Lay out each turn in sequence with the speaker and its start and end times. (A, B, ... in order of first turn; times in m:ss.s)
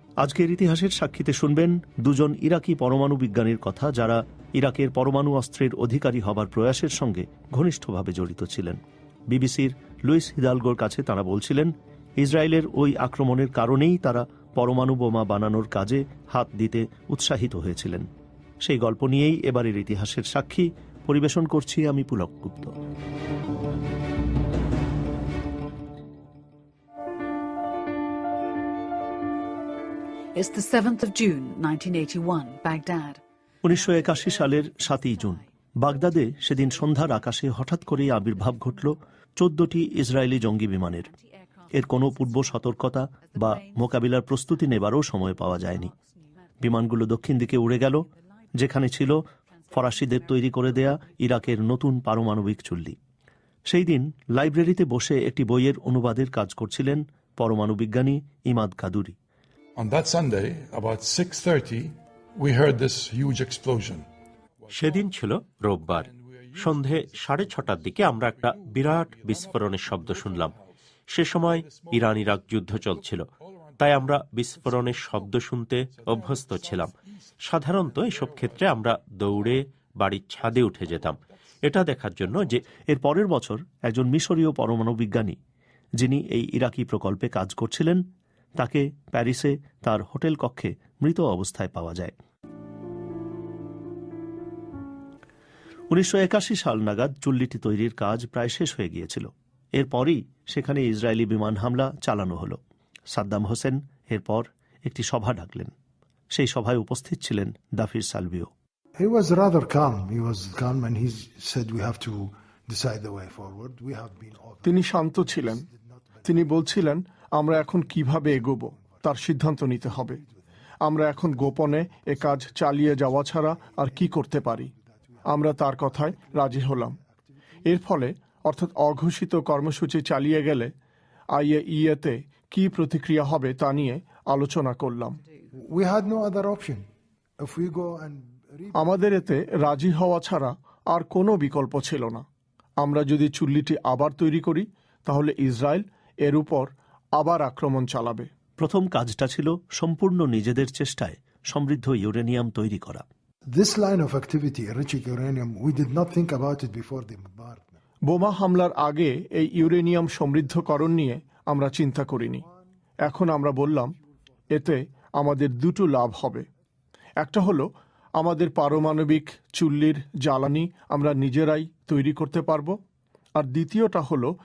0:00.2-0:08.8 A
0:09.3-0:18.1 A
0:18.6-0:22.7 A
0:30.4-0:33.2 B
0:33.6-0:41.1 A
0:33.9-0:35.4 B
0:41.0-0:42.5 B
0:41.8-0:45.9 A
0:43.2-0:44.0 B
0:45.7-0:46.2 B
0:46.6-0:53.0 A
0:48.4-0:48.7 B
0:49.5-0:50.2 B
0:53.7-0:59.2 A
0:59.8-1:04.1 C
1:04.6-1:05.1 C
1:04.7-1:10.6 D
1:05.9-1:10.7 C
1:11.1-1:13.3 D
1:11.2-1:15.4 C
1:13.8-1:16.9 D
1:15.9-1:19.6 C
1:17.4-1:22.7 D
1:20.4-1:21.4 C
1:22.1-1:22.6 C
1:22.9-1:25.4 A
1:26.0-1:28.0 A
1:28.6-1:32.1 A
1:35.9-1:42.6 A
1:43.1-1:45.7 A
1:46.3-1:48.5 A
1:49.0-1:56.6 E
1:54.6-1:55.7 F
1:56.2-2:00.2 F
1:57.7-1:59.1 E
2:00.8-2:04.7 F
2:01.2-2:05.2 E
2:05.3-2:07.0 F
2:05.9-2:06.8 E
2:07.7-2:10.7 F
2:11.4-2:15.2 F
2:15.5-2:16.9 E
2:17.4-2:19.2 E
2:18.8-2:22.2 F
2:22.8-2:28.3 F
2:28.6-2:33.0 A
2:33.5-2:37.8 E
2:38.1-2:42.4 F
2:43.0-2:43.9 F
2:44.5-2:46.4 F
2:47.2-2:52.8 F
2:53.4-2:54.3 F